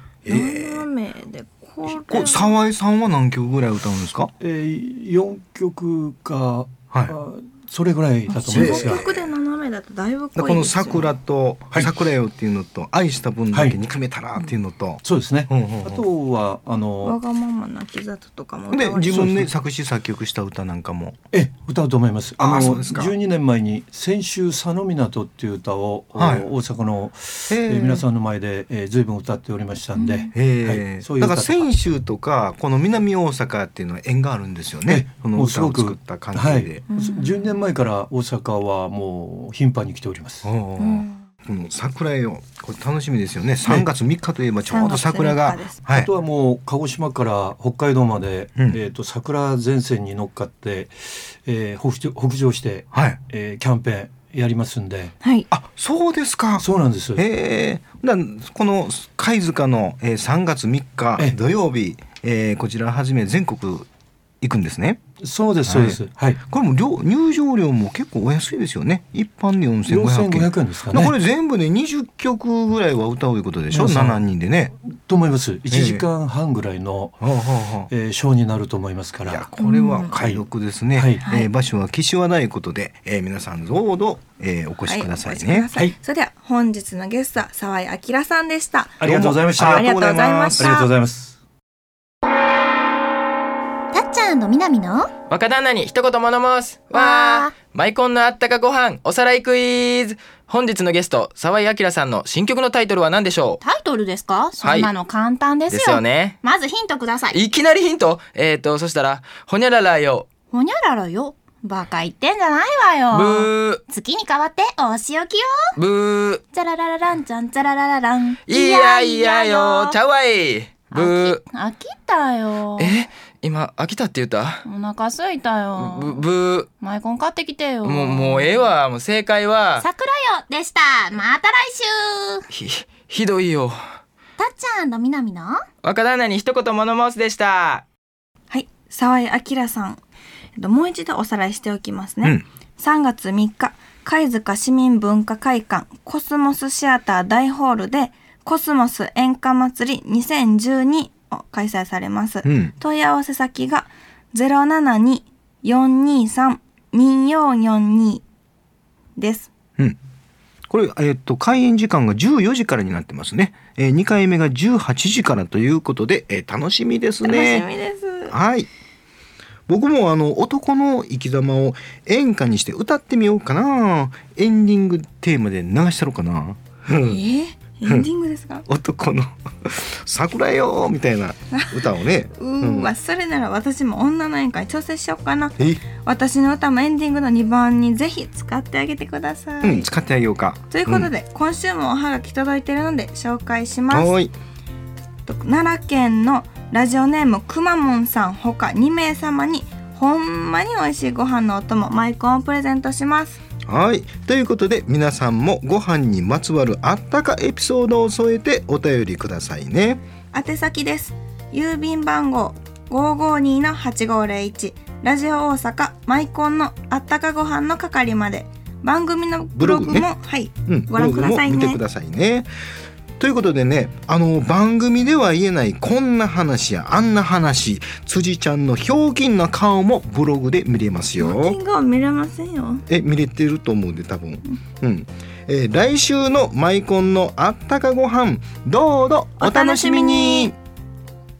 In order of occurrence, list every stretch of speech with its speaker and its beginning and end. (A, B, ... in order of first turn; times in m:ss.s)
0:00.2-0:00.9 A
0:00.3-0:02.6 B
0:01.9-0:04.3 A
0:04.4-0:09.0 C
0:06.9-0:07.2 A
0:08.3-0:11.1 B
0:08.5-0:09.3 A
0:10.3-0:16.0 A
0:13.5-0:13.8 C
0:15.0-0:17.2 C
0:17.0-0:19.2 B
0:18.7-0:21.2 A
0:19.1-0:19.5 C
0:21.3-0:31.7 C
0:22.4-0:23.1 A
0:26.2-0:26.4 A
0:27.5-0:28.0 A
0:30.0-0:30.3 B
0:30.3-0:36.8 A
0:34.9-0:40.5 C
0:36.9-0:37.5 B
0:40.4-0:46.1 A
0:40.8-0:41.2 B
0:44.7-0:45.8 B
0:45.9-0:55.1 C
0:52.9-0:53.2 A
0:55.2-0:55.5 B
0:55.5-1:03.9 A
0:56.6-0:57.2 C
1:04.4-1:05.0 A
1:05.2-1:06.4 C
1:05.6-1:14.7 A
1:09.9-1:11.1 C
1:13.7-1:14.2 C
1:14.9-1:19.5 C
1:15.7-1:16.1 A
1:17.2-1:17.9 A
1:19.2-1:25.7 A
1:19.6-1:20.2 B
1:20.1-1:20.4 C
1:21.0-1:21.2 C
1:21.2-1:21.5 B
1:24.9-1:29.0 B
1:29.0-1:29.9 C
1:29.0-1:30.8 A
1:29.7-1:30.9 B
1:30.6-1:31.4 C
1:33.9-1:35.1 D
1:35.3-1:43.6 E
1:36.9-1:37.6 D
1:43.6-1:47.4 D
1:44.6-1:44.9 E
1:45.7-1:46.4 E
1:47.3-1:50.3 E
1:50.5-1:55.7 D
1:53.1-1:53.8 E
1:55.8-1:56.4 E
1:56.5-2:00.0 D
1:58.5-2:01.4 E
2:00.8-2:03.0 D
2:02.8-2:04.6 E
2:04.6-2:06.3 D
2:05.8-2:06.7 E
2:06.8-2:08.7 D
2:07.8-2:09.8 E
2:09.8-2:12.5 D
2:12.5-2:13.8 E
2:14.4-2:15.6 D
2:15.8-2:17.8 E
2:18.5-2:20.0 B
2:20.6-2:38.2 B
2:32.4-2:32.7 A
2:39.2-2:39.5 B
2:40.7-2:47.7 A
2:47.2-2:48.4 B
2:48.3-2:48.7 A
2:49.7-2:57.2 A
2:57.0-2:58.6 B
2:58.7-3:02.9 A
3:01.5-3:09.9 B
3:05.6-3:05.8 A
3:09.6-3:11.1 A
3:10.7-3:14.1 B
3:13.9-3:14.3 A
3:15.2-3:23.4 B
3:23.7-3:30.0 A
3:30.3-3:41.8 B
3:39.5-3:40.1 A
3:40.7-3:42.5 A
3:43.2-3:51.6 A
3:51.2-3:52.8 B
3:52.9-4:00.6 A
3:59.4-4:00.5 B